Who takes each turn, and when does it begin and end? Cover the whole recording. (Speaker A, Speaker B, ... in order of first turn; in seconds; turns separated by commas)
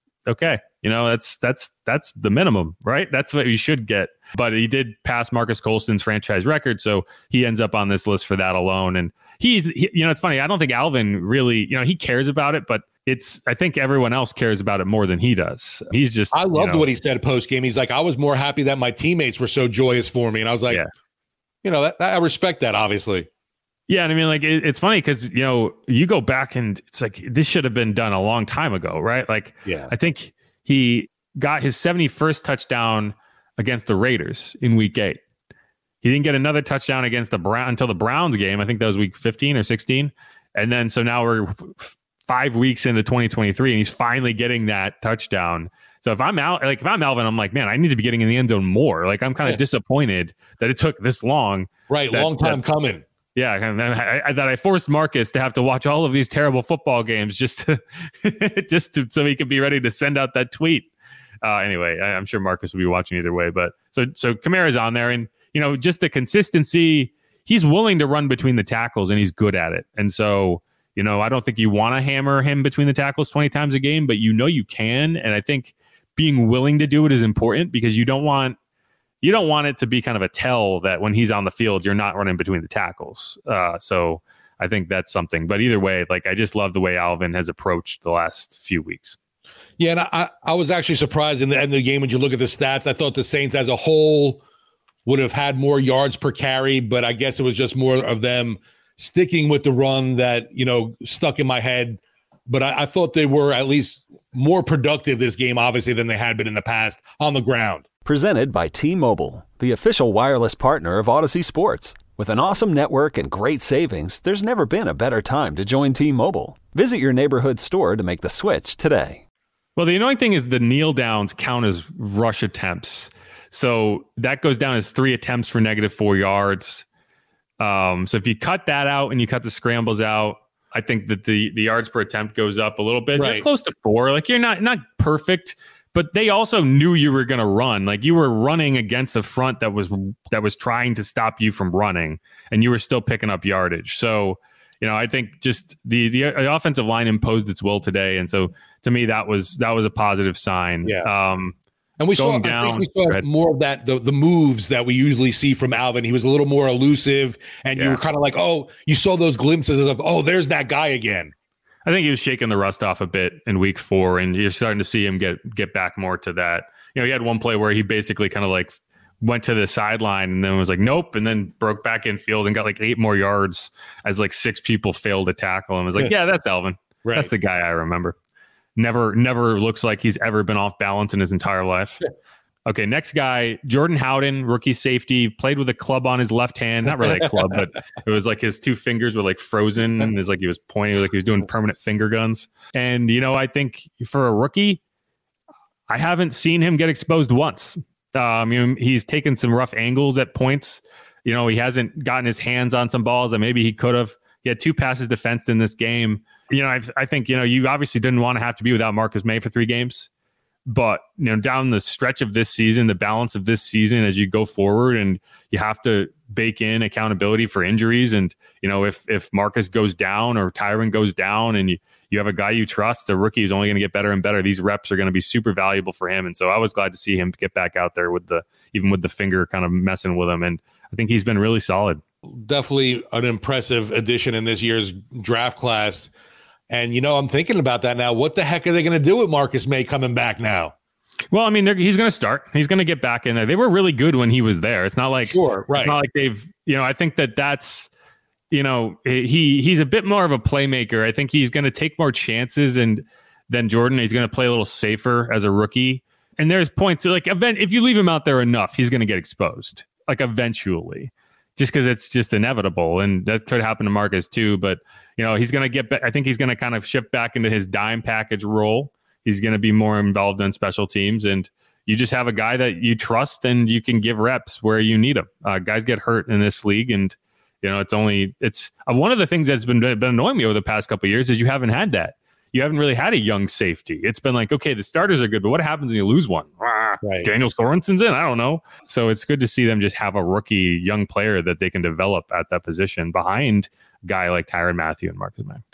Speaker A: 0.2-16.9, Speaker B: 16.3-20.8, Speaker B: 21.6-23.3, Speaker A: 23.9-35.2, Speaker B: 29.6-29.9, Speaker A: 36.0-52.6, Speaker B: 51.9-53.0, Speaker A: 53.3-60.9, Speaker A: 61.4-78.6, Speaker A: 79.2-89.2, Speaker B: 89.8-94.4, Speaker B: 95.0-107.8, Speaker C: 108.0-119.2, Speaker A: 119.8-126.8, Speaker A: 127.6-151.5, Speaker B: 133.2-133.4, Speaker B: 152.0-161.3, Speaker A: 152.2-153.3, Speaker A: 161.8-178.2, Speaker B: 177.0-177.3, Speaker A: 178.8-182.0, Speaker A: 182.7-194.8, Speaker B: 187.0-187.4, Speaker A: 195.9-210.1, Speaker A: 210.7-232.0, Speaker B: 232.4-236.1, Speaker B: 236.7-240.7, Speaker A: 241.3-247.9, Speaker B: 245.3-246.0, Speaker A: 248.5-295.6, Speaker B: 287.0-287.3